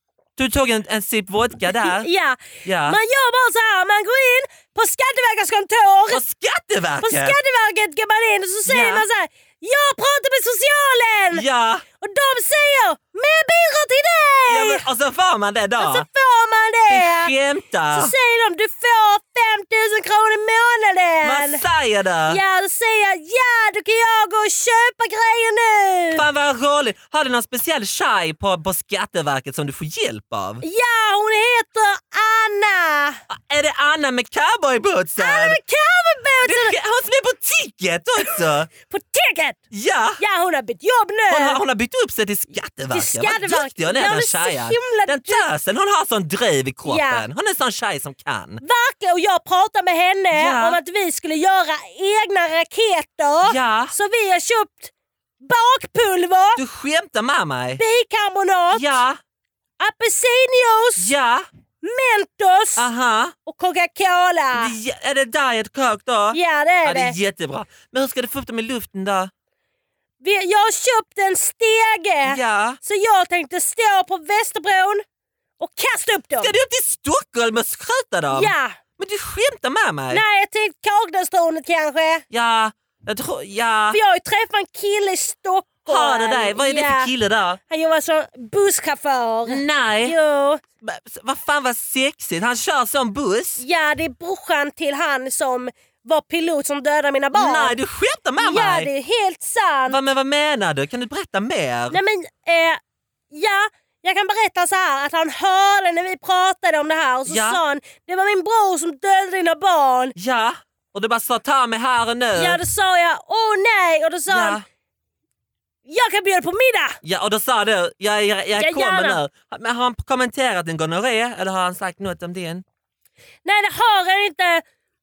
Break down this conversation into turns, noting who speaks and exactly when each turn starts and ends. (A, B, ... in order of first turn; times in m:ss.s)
0:00.4-0:02.1 A
0:01.8-0:06.2 B
0:02.6-0:03.0 A
0:06.1-0:07.4 A
0:07.0-0:11.4 B
0:08.7-0:09.0 A
0:11.3-0:11.8 A
0:12.0-0:14.8 B
0:14.5-0:16.0 A
0:15.8-0:17.3 B
0:16.9-0:18.1 A
0:17.9-0:21.6 B
0:21.2-0:22.4 A
0:22.3-0:26.2 B
0:26.1-0:30.6 A
0:30.6-0:33.2 B
0:33.3-0:35.6 A
0:35.2-0:36.8 B
0:36.4-0:38.7 A
0:38.2-0:39.6 B
0:39.7-0:40.2 A
0:40.2-0:41.6 B
0:41.3-0:48.6 A
0:42.9-0:45.4 B
0:46.8-0:47.2 B
0:48.6-0:56.6 B
0:50.3-0:50.8 A
0:53.4-0:53.9 A
0:56.6-0:57.8 A
0:57.8-0:59.0 B
0:58.7-0:59.2 A
0:59.8-1:01.1 B
1:01.0-1:01.5 A
1:01.8-1:02.8 B
1:02.8-1:03.3 A
1:03.4-1:04.7 B
1:04.5-1:09.3 A
1:06.3-1:07.1 B
1:10.2-1:15.0 B
1:12.2-1:12.8 A
1:15.6-1:16.5 B
1:16.4-1:20.2 A
1:18.3-1:18.8 B
1:20.1-1:22.2 B
1:22.3-1:24.0 A
1:23.9-1:27.1 B
1:25.8-1:27.6 A
1:27.7-1:30.6 B
1:29.5-1:30.2 A
1:30.8-1:33.6 A
1:33.6-1:37.8 B
1:37.3-1:38.9 A
1:38.4-1:40.0 B
1:39.9-1:42.0 A
1:41.9-1:42.8 B
1:43.3-1:50.1 B
1:47.2-1:47.6 A
1:50.2-1:52.6 A
1:52.3-1:54.6 B
1:54.3-1:54.6 A
1:55.8-1:57.0 B
1:57.0-2:02.6 A
1:58.6-1:59.2 B
2:03.4-2:04.6 B